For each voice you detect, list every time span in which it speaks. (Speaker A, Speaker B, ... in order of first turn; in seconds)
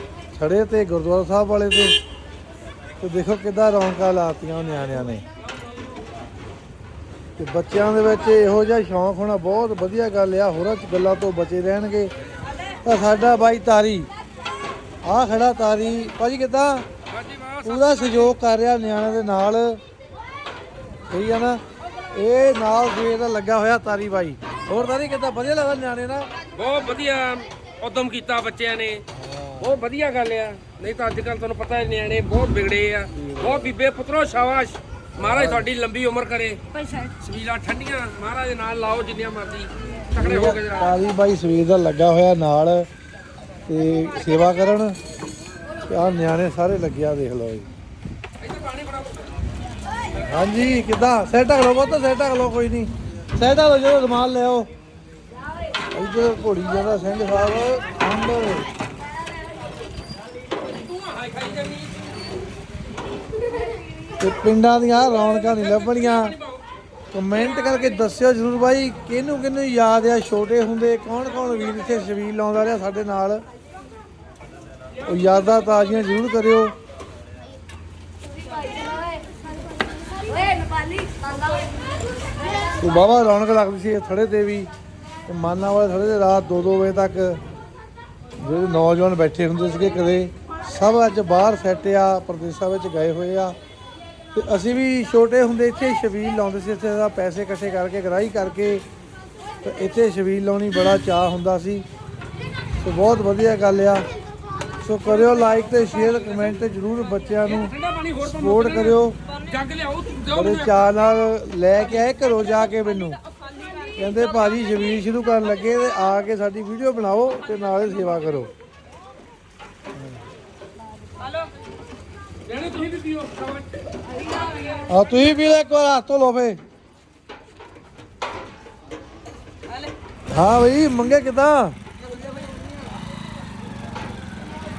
Speaker A: 0.3-2.0, 3.0-5.2, 7.4-12.1, 12.8-14.1, 15.0-16.9, 17.6-19.8, 21.1-21.6, 22.1-26.3, 29.1-29.8, 33.1-33.7, 35.2-35.7, 40.2-42.9, 43.7-45.0, 45.8-47.7, 50.3-54.7, 55.9-58.7, 64.2-66.4, 67.1-73.4, 75.0-76.7, 82.8-84.7, 85.3-87.4, 88.4-93.6, 94.3-98.8, 99.6-101.8, 102.8-104.1, 104.8-109.2, 110.3-113.2, 114.0-118.5, 124.9-126.6, 130.3-131.8
Speaker B: 17.1-18.3, 26.5-29.0, 29.6-41.0, 48.4-49.2, 60.7-61.9, 65.8-66.6, 107.5-110.8, 122.5-123.7